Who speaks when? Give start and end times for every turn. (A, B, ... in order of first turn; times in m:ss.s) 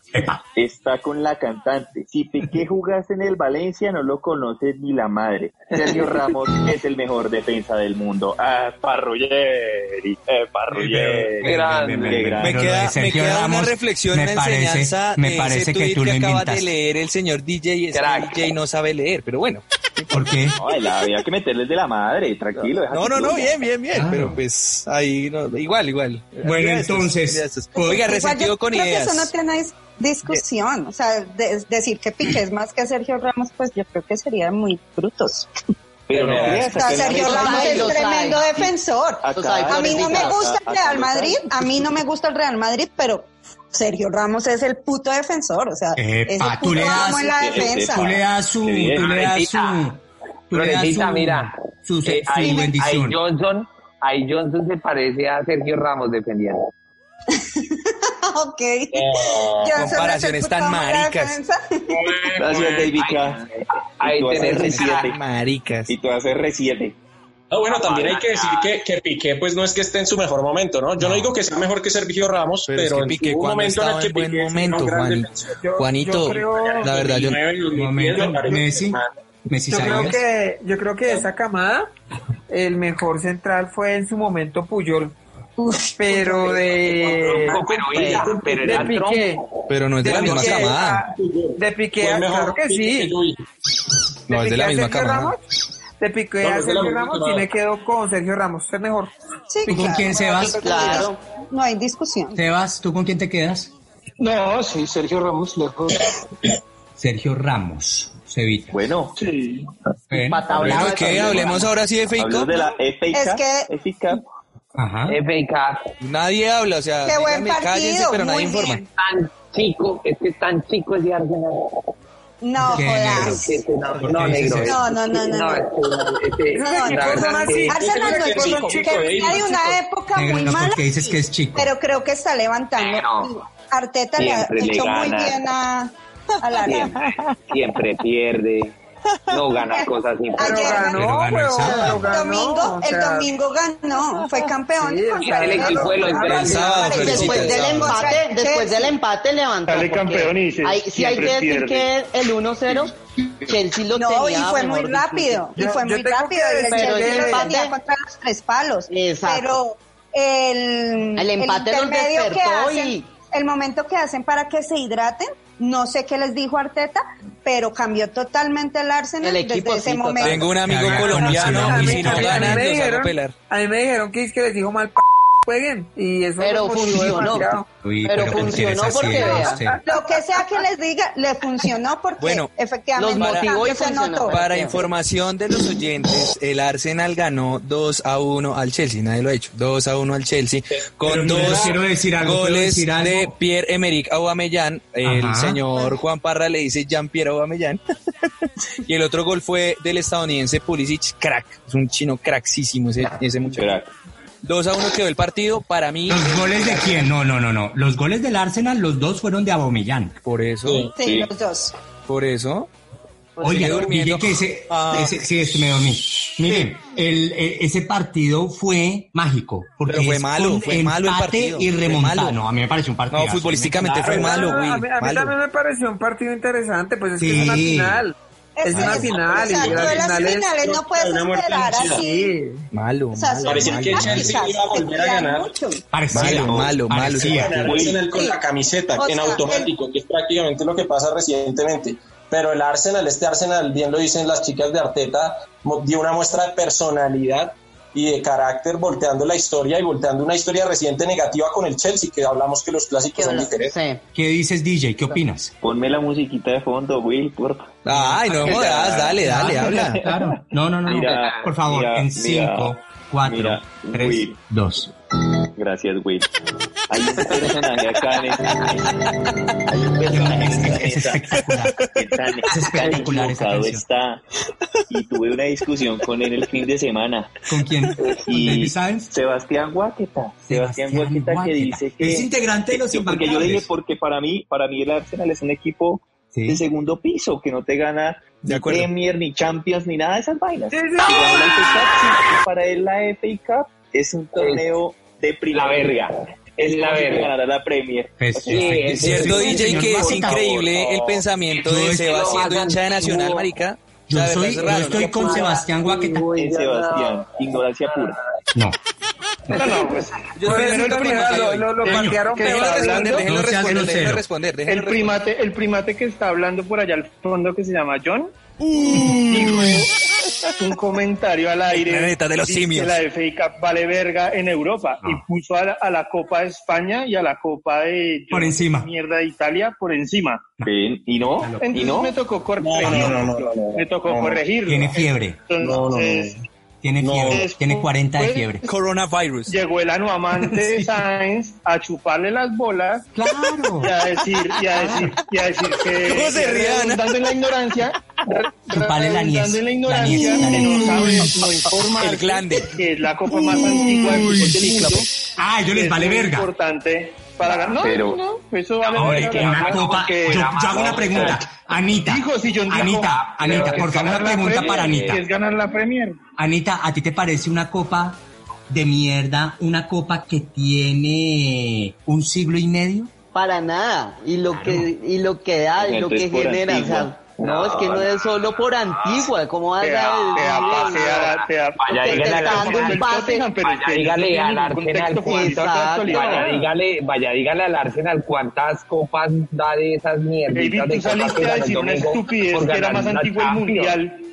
0:00.1-0:00.4 A
0:00.6-0:12.9 B
0:10.7-0:16.7 A
0:11.4-0:12.3 C
0:12.4-0:20.4 D
0:17.9-0:18.5 C
0:20.1-0:20.6 A
0:20.6-0:23.6 B
0:22.9-0:29.3 D
0:23.9-0:24.4 A
0:26.4-0:28.0 A
0:27.8-0:35.5 E
0:36.1-0:38.0 B
0:36.1-0:36.7 F
0:36.6-0:48.1 E
0:36.9-0:38.7 G
0:39.2-0:41.9 B
0:39.3-0:40.4 G
0:46.0-0:50.0 A
0:46.8-0:49.1 B
0:49.0-0:49.9 C
0:50.5-0:53.2 A
0:50.5-0:56.7 C
0:57.3-1:02.2 E
0:58.9-0:59.9 F
0:59.7-1:01.4 D
1:01.9-1:02.4 F
1:02.4-1:03.5 B
1:02.5-1:05.1 C
1:04.0-1:05.2 B
1:04.5-1:05.9 D
1:05.9-1:07.0 B
1:07.5-1:15.6 F
1:07.7-1:08.7 C
1:11.0-1:11.3 A
1:12.6-1:17.4 D
1:15.6-1:16.9 H
1:16.4-1:19.1 F
1:17.7-1:20.2 A
1:19.7-1:21.9 H
1:22.5-1:25.1 H
1:25.8-1:29.4 H
1:26.1-1:29.1 F
1:27.4-1:29.4 C
1:29.7-1:31.0 D
1:30.0-1:33.2 H
1:30.1-1:33.4 F
1:34.3-1:35.4 D
1:34.3-1:35.4 H
1:36.0-1:39.1 H
1:36.4-1:37.5 F
1:39.5-1:42.4 E
1:39.7-1:40.6 A
1:40.1-1:41.1 H
1:40.5-1:41.2 G
1:42.4-1:43.7 A
1:44.2-1:45.9 I
1:47.0-1:48.8 A
1:48.7-1:49.2 B
1:49.2-1:49.6 I
1:50.1-1:50.7 A
1:50.1-1:51.7 G
1:50.6-1:52.5 D
1:52.2-1:54.2 B
1:53.1-1:53.7 E
1:54.8-1:55.2 A
1:55.1-1:55.9 C
1:56.0-1:58.8 D
1:57.0-1:58.8 E
1:59.0-2:01.8 C
2:02.4-2:03.6 E
2:02.6-2:04.8 A
2:03.1-2:07.8 C
2:04.6-2:05.6 E
2:06.5-2:09.0 H
2:06.6-2:17.1 E
2:07.0-2:09.8 F
2:10.1-2:11.7 A
2:12.8-2:13.4 C
2:14.2-2:15.4 C
2:16.6-2:18.7 C
2:19.3-2:20.8 C
2:19.7-2:21.2 E
2:20.4-2:23.3 H
2:20.8-2:22.1 A
2:21.8-2:28.9 E
2:24.8-2:27.1 H
2:25.2-2:27.2 C
2:26.4-2:28.1 D
2:26.9-2:35.5 G
2:29.7-2:31.9 I
2:33.9-2:50.5 E
2:35.6-2:37.6 H
2:36.6-2:37.8 G
2:38.9-2:39.6 G
2:41.2-2:43.1 G
2:49.2-2:50.5 G
2:50.2-2:53.4 D
2:50.6-2:52.6 A
2:51.1-2:57.7 H
2:56.4-2:59.6 G
2:57.8-2:59.8 A
2:59.1-2:59.8 H
2:59.8-3:04.6 E
3:02.2-3:02.5 D
3:03.0-3:04.8 G
3:03.1-3:03.6 D
3:04.3-3:17.8 D
3:11.0-3:11.8 F
3:11.0-3:13.3 A
3:15.0-3:15.6 A
3:18.8-3:23.8 D
3:23.6-3:23.9 B
3:24.4-3:27.1 D
3:26.1-3:30.2 A
3:30.2-3:30.9 D
3:30.6-3:30.9 F
3:31.0-3:31.7 E
3:31.0-3:31.3 B
3:32.1-3:32.7 D
3:33.4-3:35.2 D
3:33.4-3:44.5 A
3:39.8-3:42.4 D
3:43.1-3:45.4 D
3:44.0-3:50.5 H
3:47.2-3:48.0 A
3:48.6-3:52.3 E
3:49.1-3:52.1 F
3:52.0-3:52.7 H
3:52.7-3:54.4 D
3:53.2-3:55.8 E
3:53.4-3:55.5 F
3:55.9-3:57.7 A
3:56.1-3:56.8 B
3:56.1-3:57.9 D
3:57.2-4:13.7 F
3:57.6-3:58.1 B
3:58.1-3:58.4 E
3:59.0-3:59.7 E
4:13.1-4:14.0 G
4:14.2-4:15.5 A
4:15.6-4:20.3 B
4:17.8-4:20.0 D
4:17.9-4:18.5 A
4:19.2-4:24.9 A
4:20.8-4:24.4 B
4:20.9-4:21.4 C
4:25.5-4:26.3 B
4:26.9-4:34.2 B
4:30.1-4:31.8 A
4:32.5-4:33.8 A
4:34.9-4:37.3 B
4:37.5-4:39.1 A
4:38.0-5:00.6 B
4:40.5-4:43.7 A
4:46.3-4:46.6 A
4:48.5-4:48.9 D
4:50.7-4:51.8 H
4:54.4-4:54.7 C
4:55.5-4:57.3 C
4:58.2-5:00.4 A
4:58.5-5:03.5 C
4:59.0-5:05.4 D
5:01.6-5:02.2 A
5:04.1-5:06.2 A
5:04.6-5:08.2 C
5:06.4-5:08.2 B
5:09.5-5:09.8 A
5:09.5-5:10.2 I
5:10.4-5:15.2 D
5:10.4-5:13.0 H
5:11.8-5:12.2 A
5:11.8-5:14.0 I
5:13.1-5:14.2 A
5:14.7-5:19.9 I
5:18.7-5:19.8 D
5:20.6-5:30.5 I
5:21.7-5:23.0 D
5:28.3-5:28.9 A
5:30.6-5:32.1 B
5:31.4-5:31.8 A
5:31.6-5:36.4 I
5:32.6-5:34.4 F
5:32.9-5:33.1 A
5:34.6-5:35.4 A
5:35.6-5:36.4 F
5:36.8-5:38.6 A
5:37.0-5:37.4 F
5:37.3-5:38.5 I
5:38.6-5:39.6 D
5:39.5-5:43.1 I
5:40.5-5:40.8 A
5:43.1-5:43.9 A
5:43.8-5:55.1 I
5:44.2-5:45.1 D
5:44.8-5:45.2 A
5:45.9-5:47.1 D
5:48.7-5:51.4 A
5:50.3-5:52.8 D
5:53.3-5:55.1 D
5:55.4-5:56.5 A
5:55.7-6:01.4 I
5:57.5-5:58.2 B
5:58.8-6:01.4 C
5:59.3-6:05.2 A
6:02.0-6:06.2 I
6:03.4-6:05.2 C
6:06.4-6:13.1 A
6:13.3-6:21.3 G
6:14.5-6:14.9 A
6:15.8-6:17.1 B
6:17.4-6:23.1 C
6:19.8-6:26.7 I
6:21.9-6:23.5 G
6:23.6-6:34.0 C
6:25.2-6:26.5 G
6:30.5-6:34.2 I